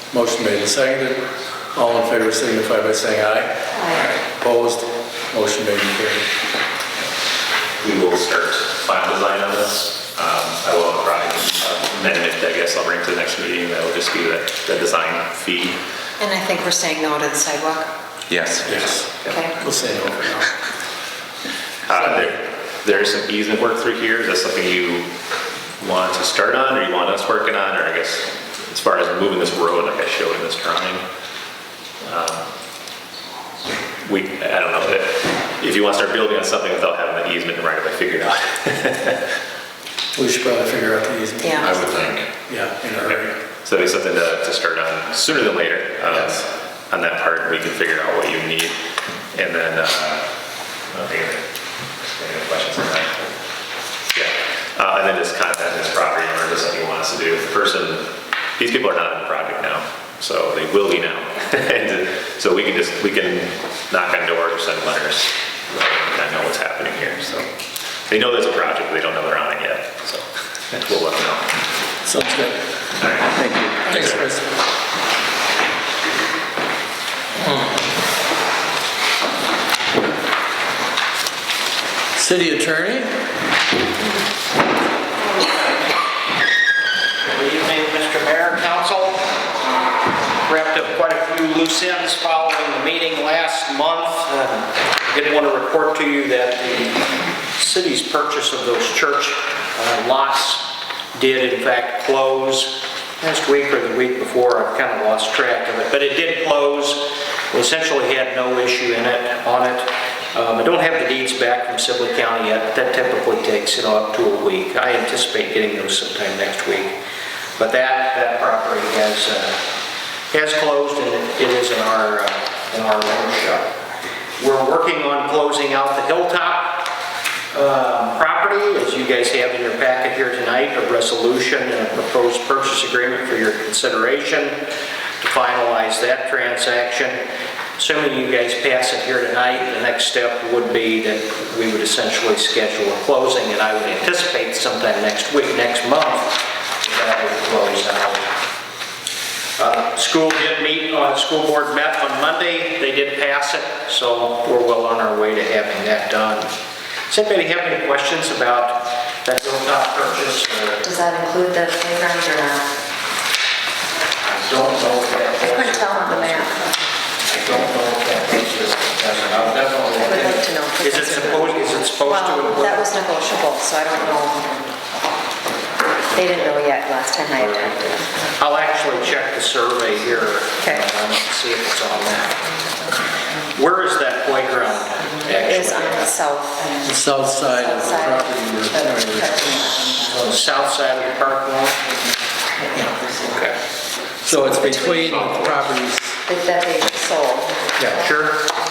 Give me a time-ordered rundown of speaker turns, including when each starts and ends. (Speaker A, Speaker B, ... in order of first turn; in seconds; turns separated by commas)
Speaker A: 0.1-1.2, Speaker A: 1.7-3.5, Speaker B: 3.7-4.1, Speaker A: 4.2-6.2, Speaker C: 7.8-15.8, Speaker B: 16.2-17.9, Speaker A: 18.6-19.1, Speaker B: 19.2-19.6, Speaker A: 19.6-20.5, Speaker C: 21.9-25.1, Speaker A: 21.9-22.2, Speaker C: 25.8-31.0, Speaker C: 32.0-32.5, Speaker C: 34.0-39.2, Speaker A: 40.2-43.4, Speaker B: 41.4-41.8, Speaker C: 41.6-42.3, Speaker C: 43.1-48.8, Speaker C: 49.3-50.3, Speaker C: 50.9-51.4, Speaker C: 52.0-53.3, Speaker C: 54.1-67.5, Speaker C: 68.1-71.5, Speaker A: 72.0-72.6, Speaker C: 73.0-74.2, Speaker A: 73.4-74.5, Speaker A: 82.2-83.1, Speaker D: 87.2-89.2, Speaker D: 90.4-117.0, Speaker D: 117.6-119.6, Speaker D: 120.3-123.7, Speaker D: 124.4-126.9, Speaker D: 127.5-134.7, Speaker D: 135.2-137.2, Speaker D: 137.8-148.3, Speaker D: 149.6-156.5, Speaker D: 157.1-160.9, Speaker B: 160.8-162.7, Speaker D: 164.2-166.7, Speaker B: 165.4-166.8, Speaker D: 167.3-173.0, Speaker B: 169.9-174.5, Speaker B: 176.1-178.1, Speaker D: 178.4-182.4, Speaker B: 180.6-180.8, Speaker D: 183.6-186.1, Speaker B: 185.3-190.3, Speaker A: 186.8-189.4, Speaker D: 190.1-191.8, Speaker A: 192.7-193.1, Speaker B: 192.8-193.2, Speaker D: 193.3-193.6, Speaker A: 194.2-196.2, Speaker B: 194.3-195.4, Speaker B: 196.2-198.0, Speaker D: 197.8-198.5